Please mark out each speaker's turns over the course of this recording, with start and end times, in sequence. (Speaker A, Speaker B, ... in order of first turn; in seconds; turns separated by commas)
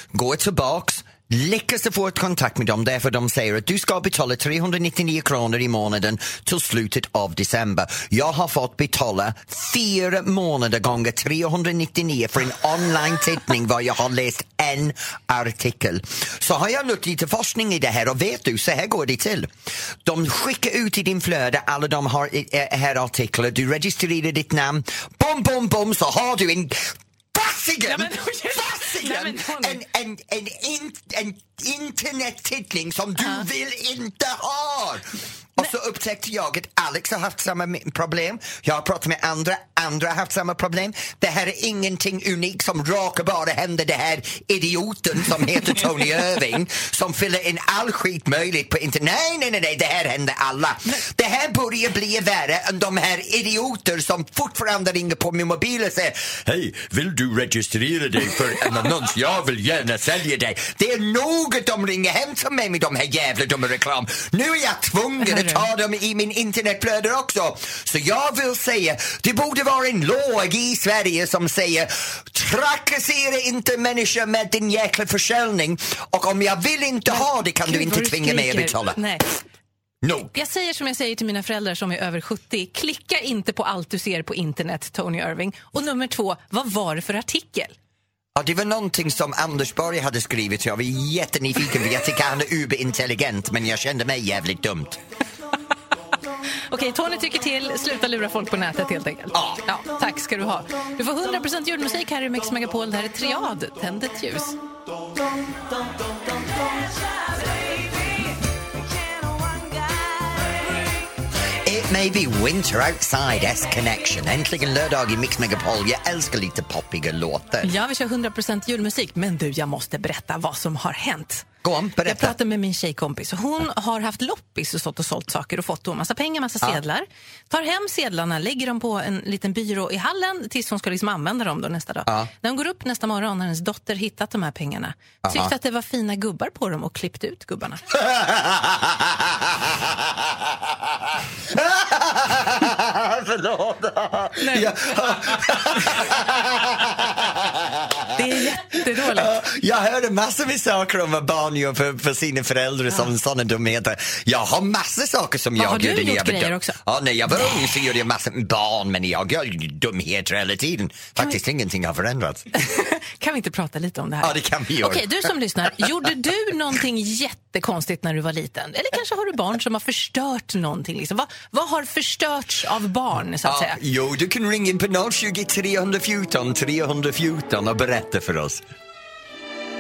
Speaker A: 0.1-19.5, Speaker A: 20.0-79.0, Speaker B: 27.9-29.8, Speaker B: 33.2-33.5, Speaker B: 65.2-65.7, Speaker B: 77.1-79.3, Speaker A: 80.0-80.3, Speaker B: 80.3-87.8, Speaker A: 88.3-95.0, Speaker B: 96.7-104.6, Speaker A: 99.3-99.6, Speaker A: 111.7-117.7, Speaker B: 117.6-121.5, Speaker A: 121.6-122.3, Speaker B: 122.0-137.8, Speaker A: 135.2-135.5, Speaker A: 137.9-162.6, Speaker B: 144.4-145.4, Speaker B: 148.2-149.3, Speaker B: 155.6-156.8, Speaker B: 162.5-173.8, Speaker A: 164.2-166.1, Speaker A: 173.4-178.6